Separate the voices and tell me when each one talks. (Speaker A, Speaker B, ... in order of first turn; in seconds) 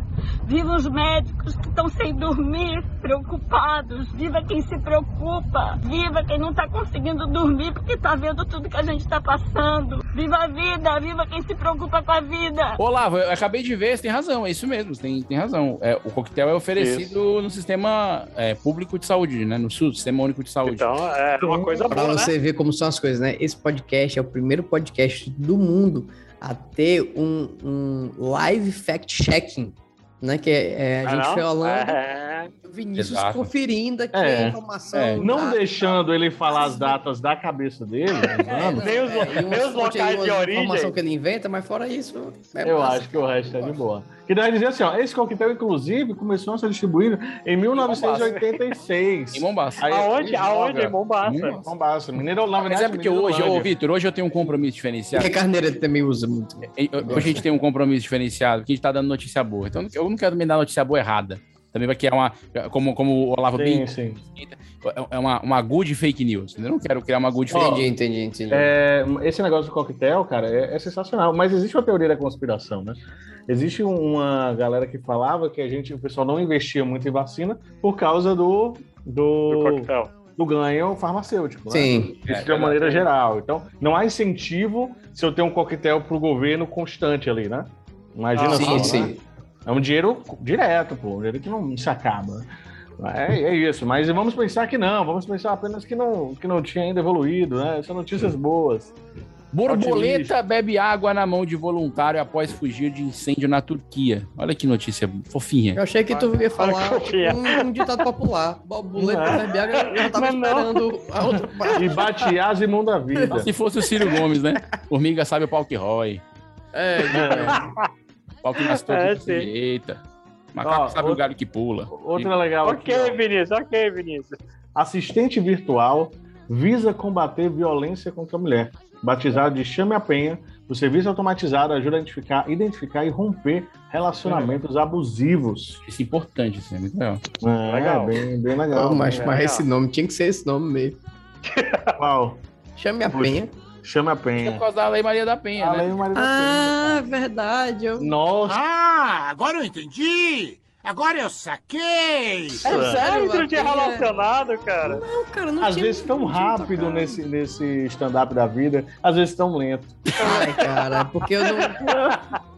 Speaker A: 0.5-12.8
Speaker B: 12.8-20.9, 33.0-33.5, 34.9-35.2, 47.8-48.3, 49.3-51.6, 52.6-55.3, 56.7-67.8, 82.2-83.0, 99.5-105.8, 113.3-116.2, 118.4-120.0, 120.5-122.3, 135.8-137.2, 144.4-146.0
Speaker C: 16.8-17.1, 20.6-22.3, 31.0-32.5, 38.7-41.0, 48.2-48.6, 49.9-51.6, 79.5-80.1, 88.3-89.0, 106.1-107.7, 109.8-110.8, 117.6-117.8, 118.7-119.5, 122.6-124.4, 137.7-138.2, 139.2-139.6, 141.4-141.9, 152.7-155.0, 160.2-162.3
Speaker D: 21.4-21.9, 34.1-34.6, 35.2-38.9, 42.6-50.4, 51.6-53.7, 57.1-57.4, 63.5-64.2, 67.5-67.8, 68.5-89.1, 89.7-92.5, 93.0-98.9, 99.7-100.3, 109.0-109.4, 111.7-113.5, 117.1-117.5, 120.6-121.2, 121.9-123.2, 124.7-135.8, 137.4-139.3, 142.0-142.4, 143.1-144.6, 145.6-147.0, 148.0-148.6, 152.6-153.0, 155.6-160.0
Speaker E: 21.9-32.0, 32.6-36.0, 38.4-43.8, 55.1-57.4, 67.5-68.7, 81.7-82.1, 88.5-89.2, 105.7-112.0, 113.1-113.4, 114.0-114.6, 116.7-117.6, 138.7-141.0, 142.8-143.5, 146.1-148.1, 152.6-154.1, 154.8-157.2, 160.2-162.0
Speaker F: 148.5-152.6